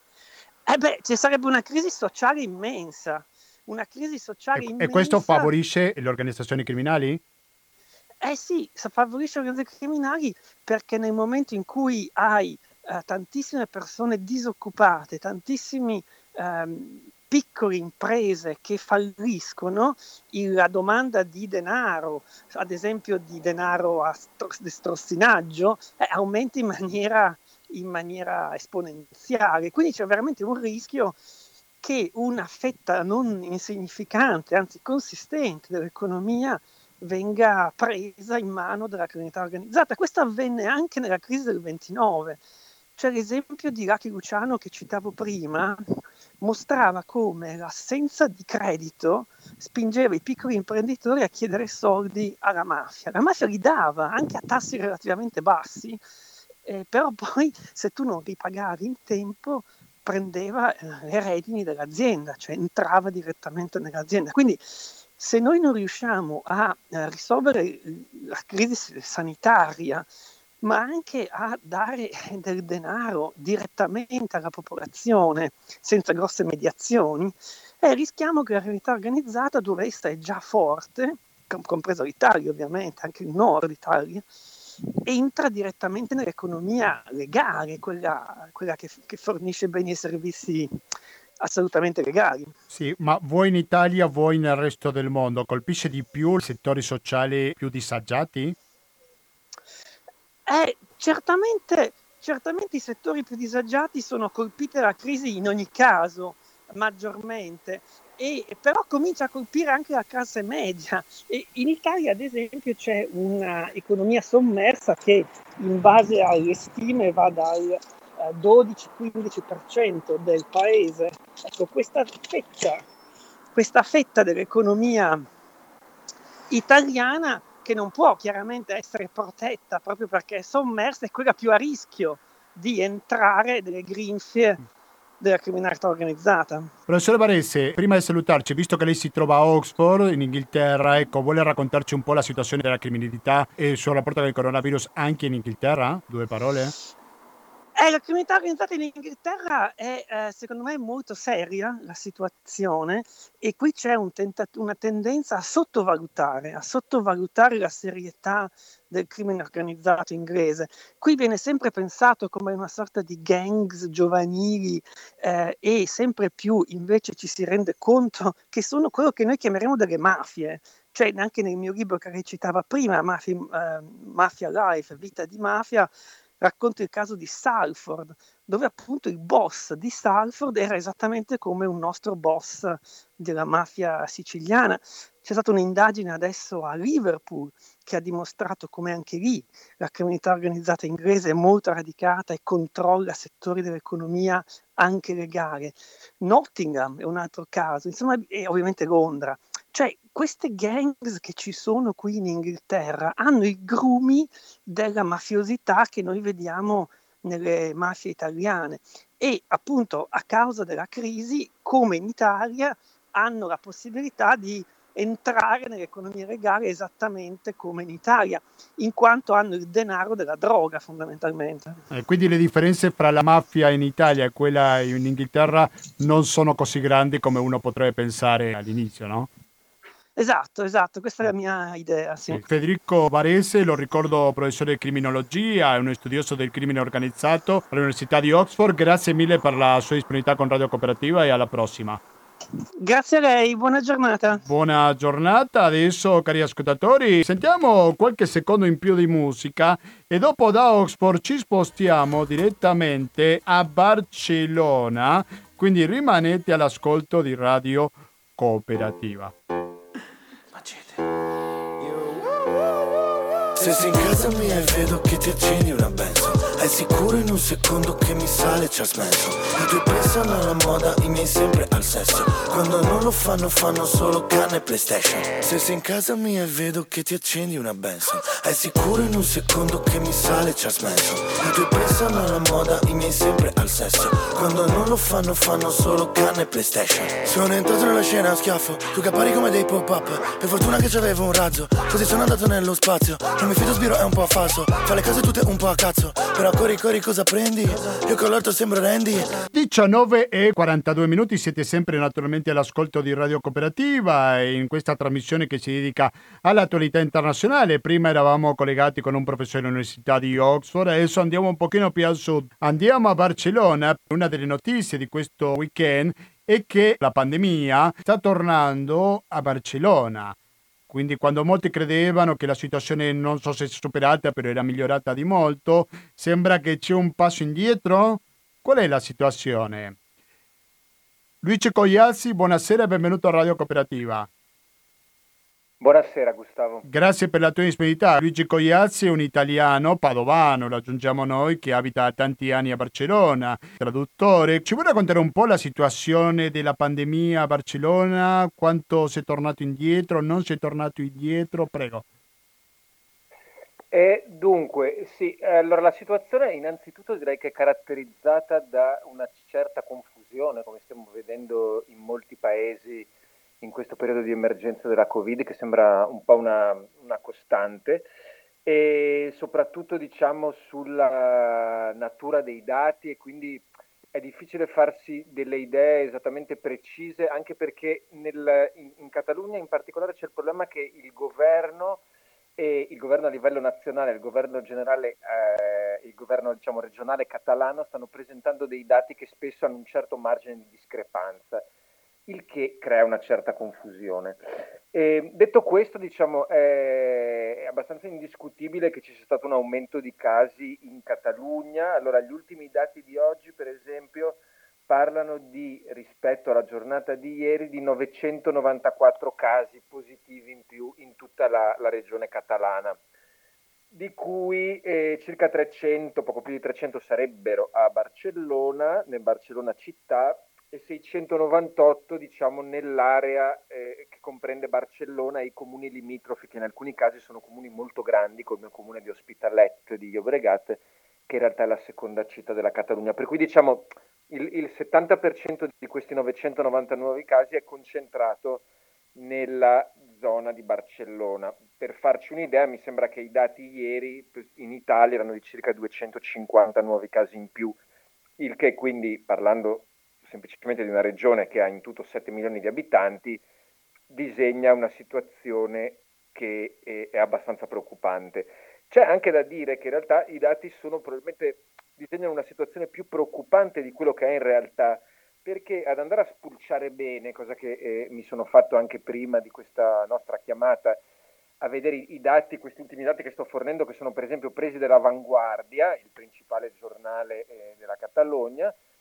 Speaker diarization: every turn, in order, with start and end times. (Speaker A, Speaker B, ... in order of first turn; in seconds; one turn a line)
Speaker A: 0.7-5.5
Speaker B: 4.5-7.2
Speaker A: 8.2-31.2
Speaker A: 31.8-42.4
Speaker A: 43.0-45.8
Speaker A: 46.4-56.0
Speaker A: 56.6-70.1
Speaker A: 70.6-84.3
Speaker A: 85.0-90.7
Speaker A: 91.4-92.5
Speaker B: 92.7-98.5
Speaker A: 100.5-122.8
Speaker A: 123.5-125.2
Speaker A: 126.5-134.6
Speaker A: 135.2-136.7
Speaker B: 136.9-146.7
Speaker A: 147.8-221.8
Speaker B: 221.9-229.3
Speaker A: 230.2-232.4
Speaker B: 232.3-242.0
Speaker A: 242.8-244.4
Speaker B: 244.4-259.3
Speaker C: 263.6-299.5
Speaker B: 299.5-320.3
Speaker B: 320.9-329.9
Speaker B: 331.4-334.3
Speaker D: 335.8-336.9
Speaker B: 336.8-352.0
Speaker D: 353.9-363.1
Speaker D: 363.6-368.1
Speaker D: 368.6-382.0
Speaker D: 382.6-391.6
Speaker D: 392.3-413.0
Speaker D: 413.9-438.6
Speaker D: 439.1-447.8
Speaker D: 448.4-453.4
Speaker D: 454.1-471.0
Speaker D: 471.6-478.8